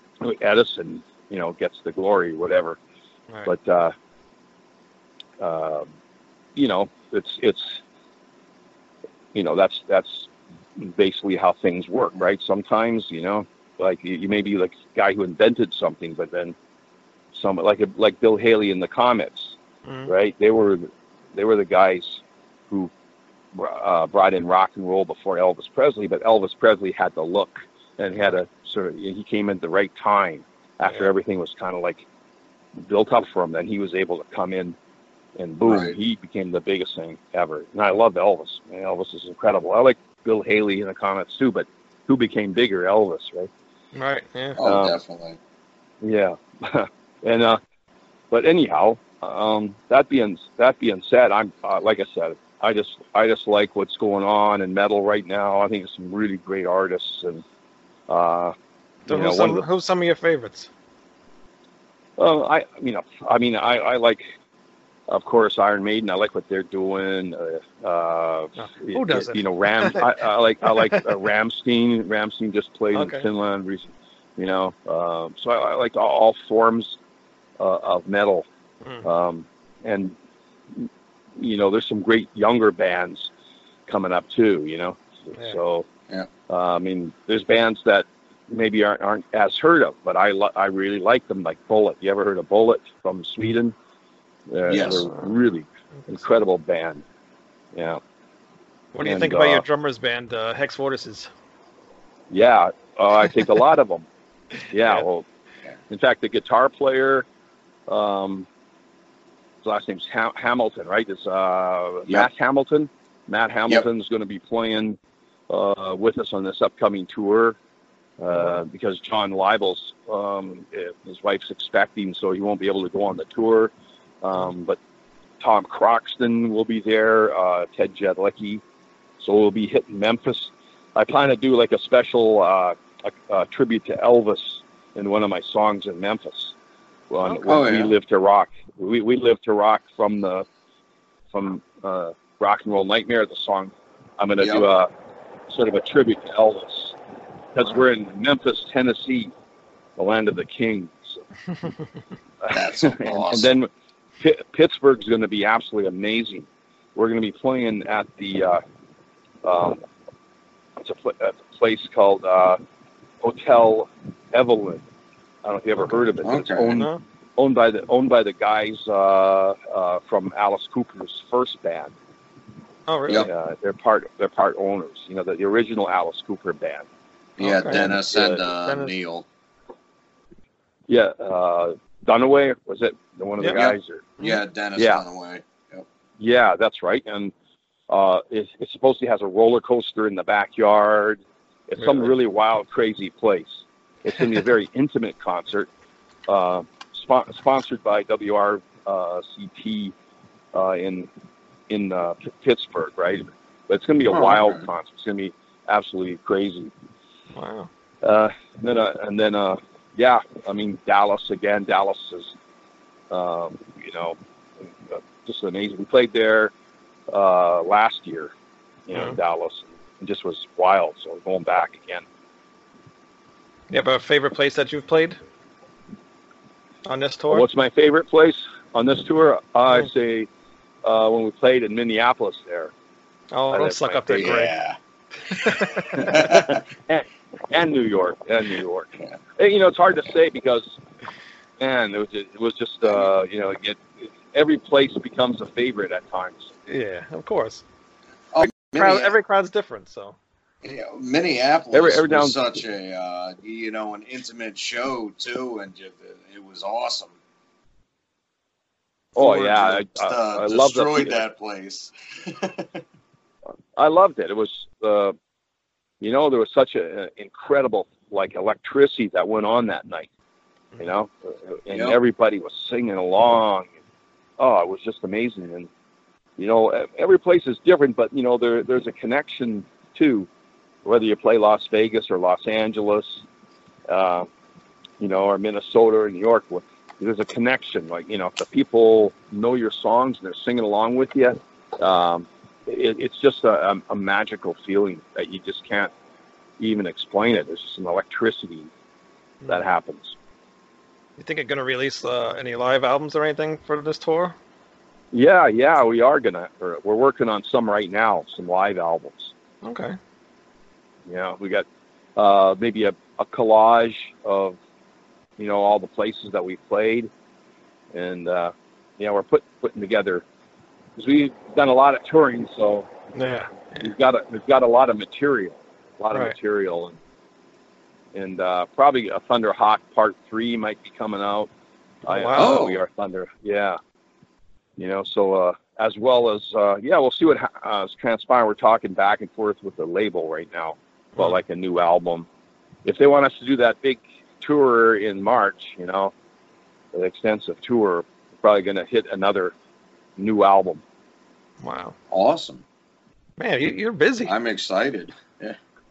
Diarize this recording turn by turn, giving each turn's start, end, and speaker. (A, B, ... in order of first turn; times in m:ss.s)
0:00.2-0:02.8 A
0:03.5-0:03.9 A
0:05.4-0:05.9 A
0:06.6-0:07.8 A
0:09.3-0:16.6 A
0:17.3-0:22.9 A
0:19.9-0:20.1 B
0:23.5-0:32.1 A
0:32.8-0:34.8 A
0:35.4-0:43.5 A
0:35.6-0:36.0 C
0:43.9-0:44.6 B
0:44.6-0:45.4 C
0:44.6-0:45.0 A
0:46.0-0:47.6 A
0:48.3-0:57.4 A
0:58.1-0:58.6 A
0:59.1-0:59.6 A
0:59.1-1:00.7 B
1:02.2-1:04.3 A
1:05.1-1:17.0 A
1:08.6-1:10.2 B
1:10.7-1:11.0 B
1:12.9-1:13.3 B
1:17.6-1:18.5 A
1:19.0-1:20.2 A
1:20.7-1:23.3 A
1:23.9-1:25.9 A
1:26.5-1:33.8 A
1:34.5-1:37.0 A
1:34.7-1:35.1 C
1:34.9-1:35.3 B
1:37.7-1:38.0 A
1:38.9-1:41.3 B
1:39.0-1:39.6 A
1:42.3-1:44.1 A
1:44.7-1:45.3 A
1:45.9-1:47.3 A
1:47.9-1:48.5 A
1:49.6-1:55.0 A
1:55.5-1:57.6 A
1:58.2-2:04.8 A
2:05.4-2:08.6 A
2:09.2-2:16.6 A
2:17.1-2:20.5 A
2:17.2-2:17.7 B
2:17.5-2:18.0 C
2:21.3-2:24.9 A
2:24.4-2:24.7 C
2:25.5-2:27.0 A
2:27.5-2:29.3 A
2:30.0-2:31.2 A
2:32.4-2:33.7 A
2:32.5-2:33.5 C
2:34.2-2:38.6 A
2:39.4-2:39.8 A
2:40.8-2:42.6 A
2:43.2-2:44.8 A
2:45.4-2:51.9 A
2:46.2-2:46.8 C
2:52.9-2:53.3 B
2:53.1-2:56.9 A
2:57.4-2:59.2 C
2:57.4-2:58.0 B
2:57.7-2:58.4 A
2:58.6-2:58.9 B
3:00.9-3:04.1 A
3:03.4-3:03.6 B
3:03.5-3:05.8 C
3:04.8-3:05.0 A
3:06.2-3:07.3 A
3:07.9-3:15.7 A
3:11.8-3:12.1 B
3:16.3-3:19.9 A
3:20.5-3:21.1 A
3:21.7-3:26.7 A
3:24.1-3:24.6 C
3:27.3-3:27.7 B
3:28.0-3:32.4 A
3:33.1-3:36.5 A
3:37.1-3:38.3 A
3:38.9-3:42.0 A
3:43.7-3:45.2 B
3:46.9-3:47.5 B
3:47.3-3:50.3 A
3:50.8-3:52.7 A
3:53.3-3:54.6 B
3:53.5-3:54.4 A
3:54.1-3:54.8 C
3:55.3-3:56.6 C
3:55.3-3:56.4 B
3:56.0-4:00.8 A
4:01.6-4:06.5 A
4:06.7-4:07.6 B
4:08.3-4:09.1 C
4:08.4-4:10.2 B
4:10.6-4:17.2 C
4:11.7-4:12.4 A
4:19.2-4:21.2 A
4:19.2-4:22.7 C
4:23.8-4:25.2 A
4:26.0-4:30.1 A
4:30.8-4:33.7 A
4:31.7-4:32.0 C
4:34.4-4:35.7 A
4:36.4-4:40.3 A
4:40.8-4:43.3 A
4:43.9-4:44.3 A
4:45.0-4:55.9 A
4:56.6-4:58.7 A
4:59.5-5:00.2 A
5:01.2-5:04.4 B
5:05.1-5:09.3 A
5:09.6-5:10.0 B
5:11.1-5:14.6 A
5:15.4-5:17.1 A
5:17.9-5:20.2 A
5:21.0-5:22.9 A
5:23.1-5:23.8 B
5:23.8-5:27.0 A
5:28.1-5:31.5 A
5:32.1-5:32.7 B
5:32.1-5:33.8 A
5:32.4-5:32.8 C
5:34.8-5:42.3 A
5:42.8-5:46.1 A
5:46.9-5:49.5 A
5:50.2-5:50.8 A
5:51.6-5:52.0 B
5:52.1-5:52.6 C
5:53.4-5:54.3 B
5:54.2-5:55.6 C